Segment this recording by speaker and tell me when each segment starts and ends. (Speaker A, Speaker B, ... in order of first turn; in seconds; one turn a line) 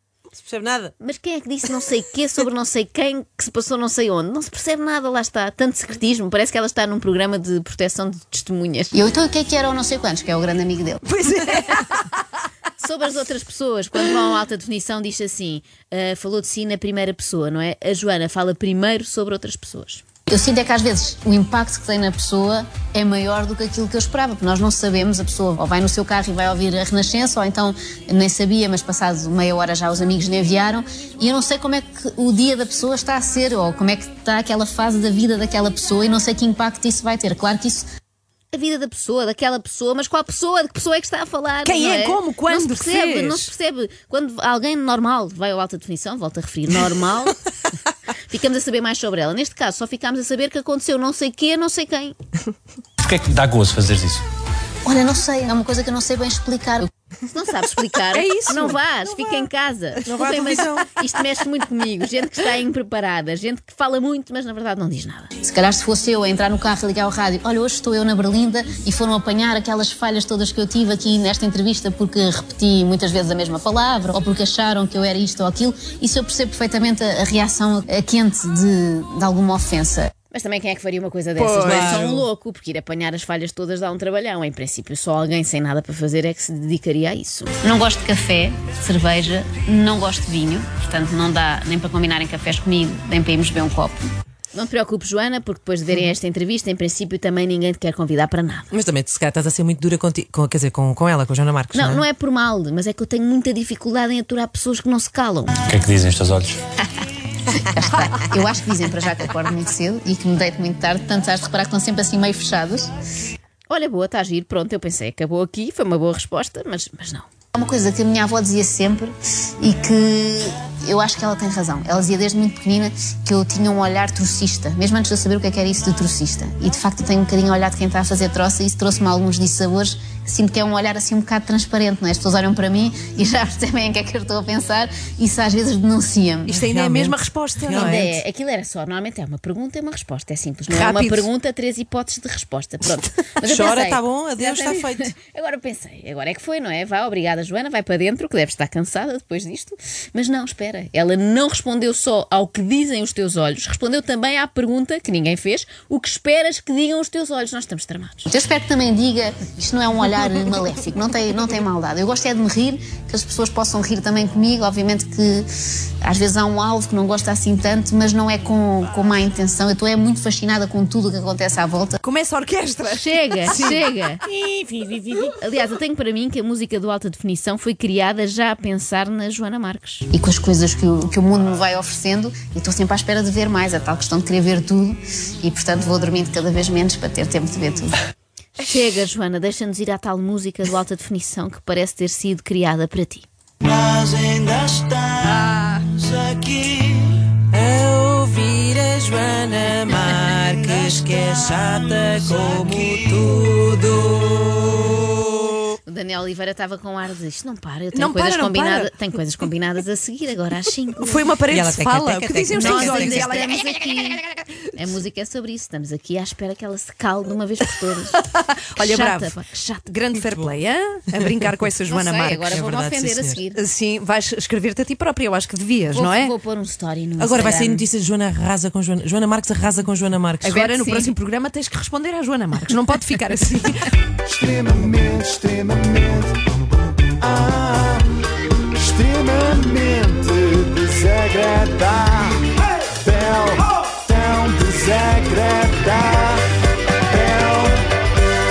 Speaker A: 0.3-0.9
Speaker B: 1.0-9.0
Speaker C: 8.9-11.0
Speaker D: 11.1-12.1
Speaker B: 12.8-20.1
Speaker C: 20.3-37.9
Speaker B: 38.5-47.4
Speaker D: 41.6-43.5
Speaker B: 48.3-52.2
Speaker E: 53.0-54.2
Speaker C: 54.9-56.9
Speaker B: 57.3-65.4
Speaker D: 58.1-59.4
Speaker A: 60.1-60.9
Speaker D: 60.1-60.6
Speaker C: 65.4-80.1
Speaker B: 80.3-87.6
Speaker D: 81.4-82.1
Speaker A: 81.6-82.2
Speaker C: 87.6-94.1
Speaker B: 94.5-98.7
Speaker A: 98.7-102.0
Speaker B: 101.7-105.6
Speaker E: 105.7-106.6
Speaker C: 107.6-112.9
Speaker B: 113.7-117.3
Speaker C: 117.5-136.5
Speaker B: 133.5-134.9
Speaker B: 136.0-136.4
Speaker D: 136.5-138.1
Speaker A: 136.5-138.2
Speaker B: 137.7-158.3
Speaker D: 140.7-141.3
Speaker A: 143.4-145.1
Speaker C: 158.3-165.5
Speaker C: 166.0-172.0
Speaker D: 172.0-175.3
Speaker B: 172.9-174.2
Speaker B: 175.4-180.1
Speaker C: 180.1-188.0
Speaker B: 188.6-193.3
Speaker D: 194.2-195.3
Speaker A: 197.5-204.4
Speaker B: 205.9-211.3
Speaker D: 207.9-208.9
Speaker D: 211.0-213.6
Speaker A: 211.5-213.4
Speaker B: 212.5-218.2
Speaker D: 218.2-219.3
Speaker B: 218.8-219.8
Speaker D: 219.9-222.5
Speaker B: 221.9-223.6
Speaker A: 222.5-223.4
Speaker D: 223.5-226.3
Speaker B: 225.9-227.9
Speaker A: 227.2-230.7
Speaker D: 230.4-233.9
Speaker B: 230.5-231.1
Speaker F: 234.2-236.4
Speaker F: 237.2-238.1
Speaker F: 238.8-242.4
Speaker F: 243.0-246.4
Speaker F: 247.3-247.8